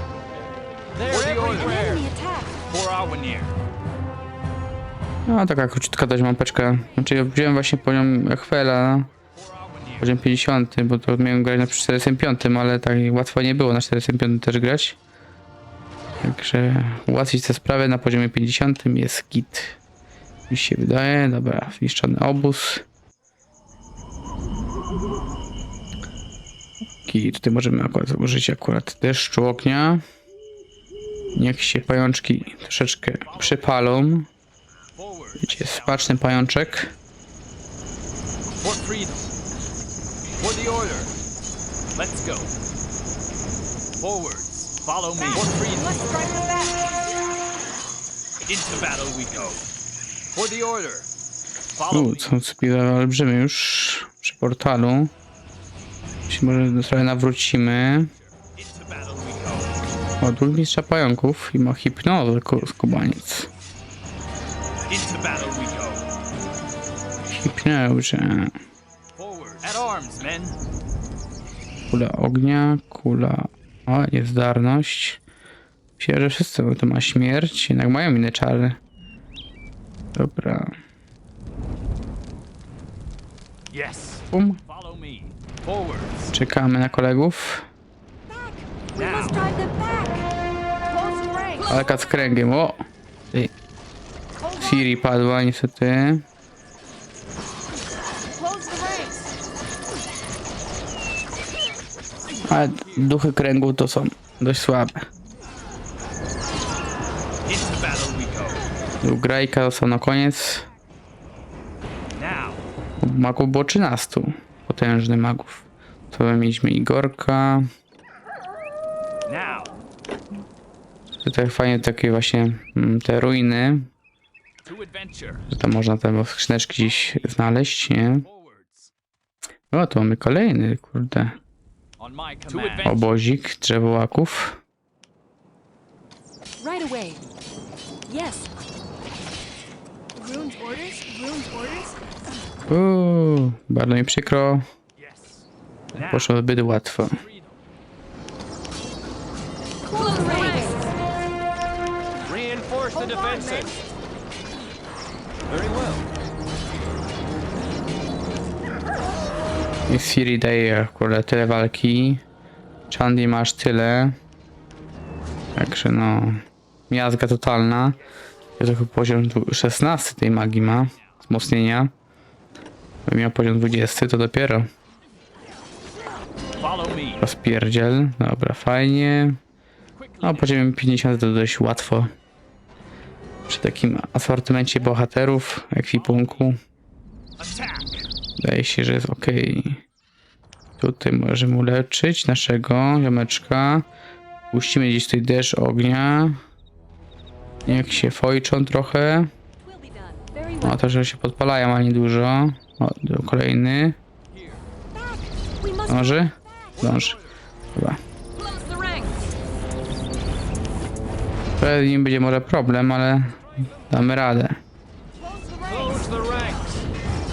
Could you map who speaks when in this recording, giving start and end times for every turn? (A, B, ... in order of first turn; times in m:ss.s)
0:01.0-0:02.0 A
0:01.1-0:01.8 B
0:01.5-0:02.6 C
0:02.7-0:03.5 B
0:05.3-0:09.1 D
0:09.1-0:10.1 B
0:10.0-0:15.0 D
0:16.2-0:19.8 D
0:20.5-0:22.8 D
0:27.0-0:30.0 D
0:31.4-0:34.3 D
0:32.0-0:32.6 B
0:33.2-0:33.8 B
0:35.0-0:36.1 B
0:35.4-0:36.9 D
0:38.5-0:39.3 B
0:40.4-0:41.1 B
0:42.0-0:42.5 B
0:44.0-0:45.8 B
0:45.4-0:46.9 E
0:48.5-0:49.6 B
0:50.3-0:51.1 B
0:51.8-0:52.4 B
0:51.9-0:55.1 D
0:56.3-0:58.1 D
0:58.1-0:59.8 B
1:00.2-1:03.5 D
1:02.6-1:03.5 B
1:04.9-1:06.1 B
1:07.3-1:08.6 D
1:09.2-1:10.6 B
1:11.9-1:15.2 D
1:16.0-1:18.8 D
1:20.1-1:20.8 D
1:23.7-1:26.3 B
1:24.3-1:24.6 D
1:26.3-1:27.7 D
1:28.3-1:30.3 C
1:28.9-1:29.4 B
1:30.9-1:31.8 E
1:31.7-1:32.8 D
1:34.4-1:34.9 E
1:34.6-1:36.2 D
1:38.4-1:39.3 E
1:42.5-1:43.1 B
1:42.5-1:45.1 D
1:47.5-1:48.6 B
1:49.0-1:50.7 D
1:52.2-1:52.6 B
1:53.0-1:57.7 D
1:59.3-1:59.8 B
2:01.2-2:03.9 D
2:04.6-2:05.5 B
2:05.5-2:08.3 D
2:06.8-2:07.4 B
2:08.0-2:08.9 B
2:09.7-2:11.4 D
2:12.0-2:13.1 B
2:12.5-2:14.6 D
2:16.6-2:17.2 C
2:18.1-2:18.5 C
2:20.2-2:22.0 E
2:22.7-2:24.7 D
2:25.0-2:26.3 B
2:26.0-2:27.2 D
2:27.0-2:27.6 B
2:29.8-2:30.9 C
2:32.3-2:33.6 A
2:33.0-2:33.8 E
2:35.5-2:36.0 A
2:39.9-2:42.2 D
2:42.9-2:44.2 D
2:45.6-2:48.0 D
2:48.6-2:51.9 D
2:53.1-2:54.7 D
2:56.6-2:57.2 B
2:57.2-2:59.4 D
3:00.0-3:00.6 B
3:00.2-3:02.1 D
3:03.5-3:06.6 D
3:05.9-3:06.5 B
3:07.4-3:08.1 B
3:08.4-3:09.8 D
3:10.8-3:13.9 D
3:14.5-3:16.4 D
3:17.7-3:19.3 D
3:19.6-3:20.8 C
3:20.6-3:24.0 D
3:24.3-3:24.6 B
3:24.9-3:26.8 C
3:25.9-3:27.2 D
3:26.8-3:27.3 B
3:27.8-3:28.0 D
3:28.6-3:29.1 C
3:31.6-3:34.6 D
3:35.2-3:36.5 E
3:35.8-3:36.4 A